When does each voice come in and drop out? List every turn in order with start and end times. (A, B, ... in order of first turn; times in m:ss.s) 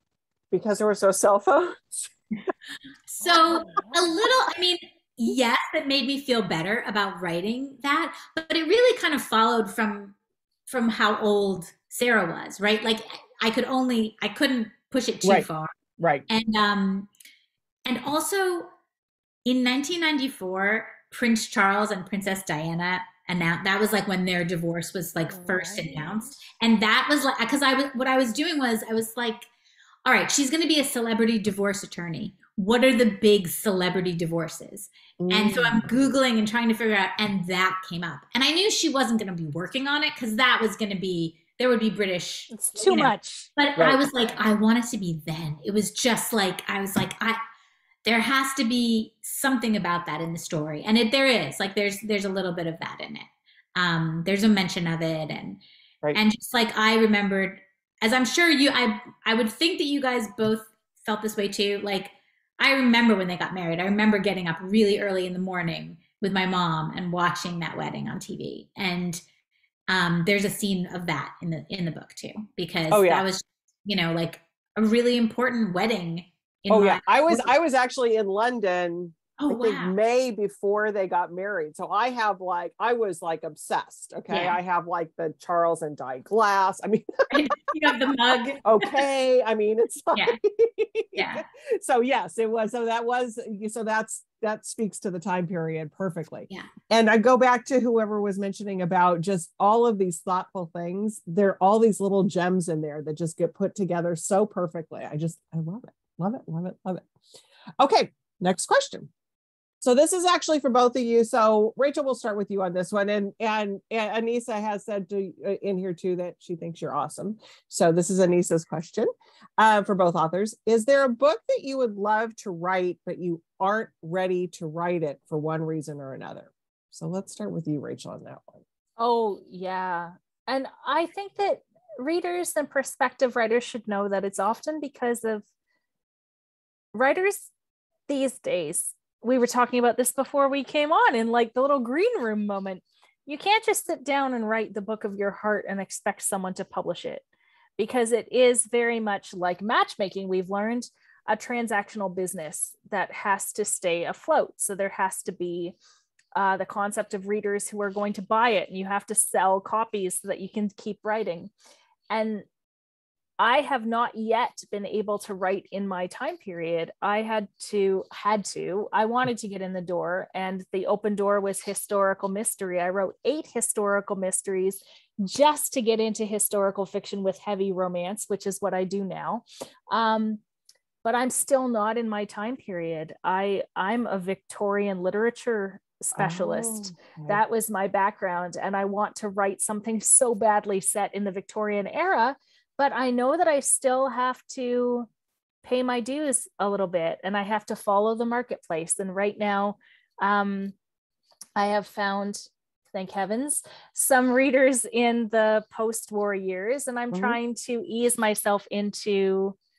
0:00.5-0:02.1 A
0:03.1-0:10.1 B
0:03.2-0:04.1 C
0:10.7-0:15.7 B
0:16.0-0:16.2 A
0:16.3-0:17.1 B
0:17.8-0:18.7 B
0:19.4-0:29.5 B
0:30.0-0:47.4 B
0:35.2-0:36.1 A
0:42.5-0:43.5 C
0:43.8-0:44.0 A
0:48.0-0:55.6 B
0:56.1-1:09.2 B
1:09.9-1:17.5 B
1:12.9-1:13.2 A
1:16.7-1:27.5 A
1:19.4-1:19.9 B
1:24.3-1:24.6 B
1:27.3-1:29.0 B
1:28.6-1:47.1 A
1:31.1-1:31.4 B
1:47.8-1:49.1 A
1:49.8-2:08.6 A
2:09.0-2:15.4 C
2:16.9-2:17.5 C
2:18.1-2:27.2 C
2:27.8-2:35.8 C
2:36.3-2:41.5 C
2:42.1-2:42.4 C
2:43.4-3:00.4 C
3:01.0-3:15.1 C
3:06.1-3:07.4 A
3:15.6-3:20.8 C
3:21.6-3:29.6 C
3:27.1-3:27.4 A